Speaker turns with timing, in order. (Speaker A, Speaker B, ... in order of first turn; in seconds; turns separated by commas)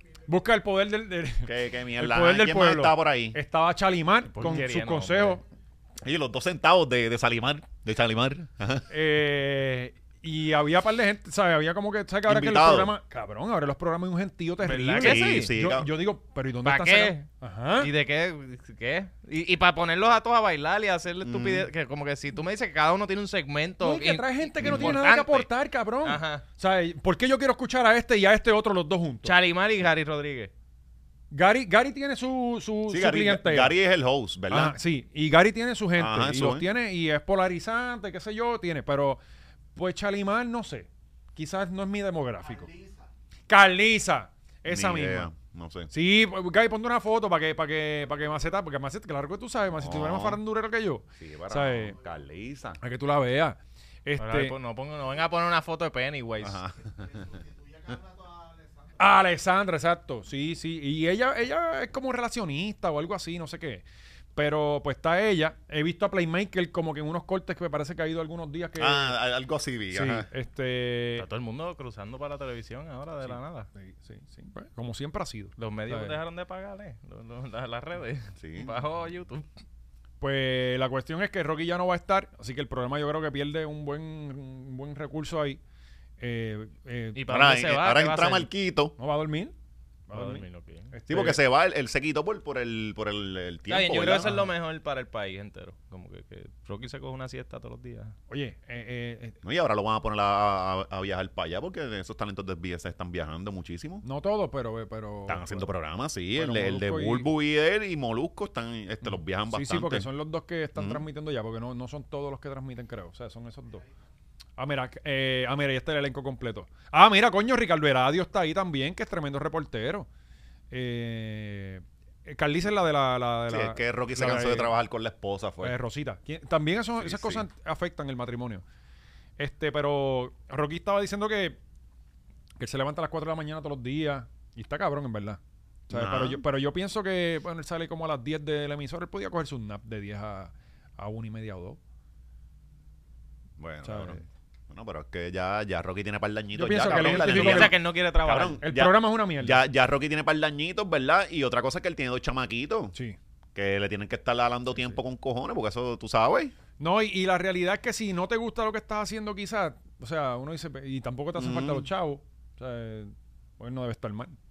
Speaker A: 0.2-5.4, Speaker B: 1.4-3.4, Speaker C: 4.3-5.4, Speaker B: 6.0-8.9, Speaker A: 8.9-17.9, Speaker B: 12.2-12.9, Speaker C: 14.6-15.5, Speaker B: 15.0-15.9, Speaker C: 16.6-17.2, Speaker C: 17.8-25.5, Speaker B: 21.2-21.7, Speaker A: 23.8-29.3, Speaker B: 24.6-25.0, Speaker C: 26.0-26.4, Speaker C: 29.2-30.5, Speaker A: 31.3-33.7, Speaker B: 32.9-34.8, Speaker A: 34.5-39.2, Speaker B: 36.0-36.7, Speaker A: 39.7-42.7, Speaker A: 43.5-45.3, Speaker B: 44.6-45.9, Speaker A: 45.9-52.0, Speaker B: 49.8-50.4, Speaker B: 51.2-52.8, Speaker A: 52.8-54.5, Speaker C: 54.2-56.6, Speaker B: 56.4-57.3, Speaker A: 59.0-63.8, Speaker A: 64.3-69.2, Speaker B: 68.8-70.3, Speaker A: 69.9-71.2, Speaker C: 71.2-73.7, Speaker A: 73.2-76.2, Speaker C: 75.6-79.5, Speaker B: 78.4-78.7, Speaker A: 80.2-85.6, Speaker A: 86.2-87.2, Speaker C: 87.2-88.5, Speaker B: 87.3-89.0, Speaker A: 89.0-89.5, Speaker A: 90.1-91.4, Speaker C: 90.1-90.9, Speaker B: 91.1-94.3, Speaker C: 93.7-98.1, Speaker A: 94.2-94.5, Speaker A: 98.3-99.4, Speaker B: 99.4-104.0, Speaker A: 104.0-105.7, Speaker B: 105.3-110.1, Speaker A: 106.3-107.3, Speaker A: 109.0-113.8, Speaker B: 110.8-111.0, Speaker A: 114.6-120.1, Speaker A: 120.7-124.7, Speaker B: 123.5-125.8, Speaker A: 125.6-128.6, Speaker B: 127.0-127.4, Speaker A: 129.4-131.6, Speaker A: 132.6-141.8, Speaker B: 135.9-136.4, Speaker B: 143.6-152.9, Speaker A: 143.8-144.2, Speaker A: 146.5-147.8, Speaker C: 146.9-148.6, Speaker A: 148.6-149.6, Speaker B: 153.5-156.5, Speaker A: 156.8-164.3, Speaker B: 161.3-161.9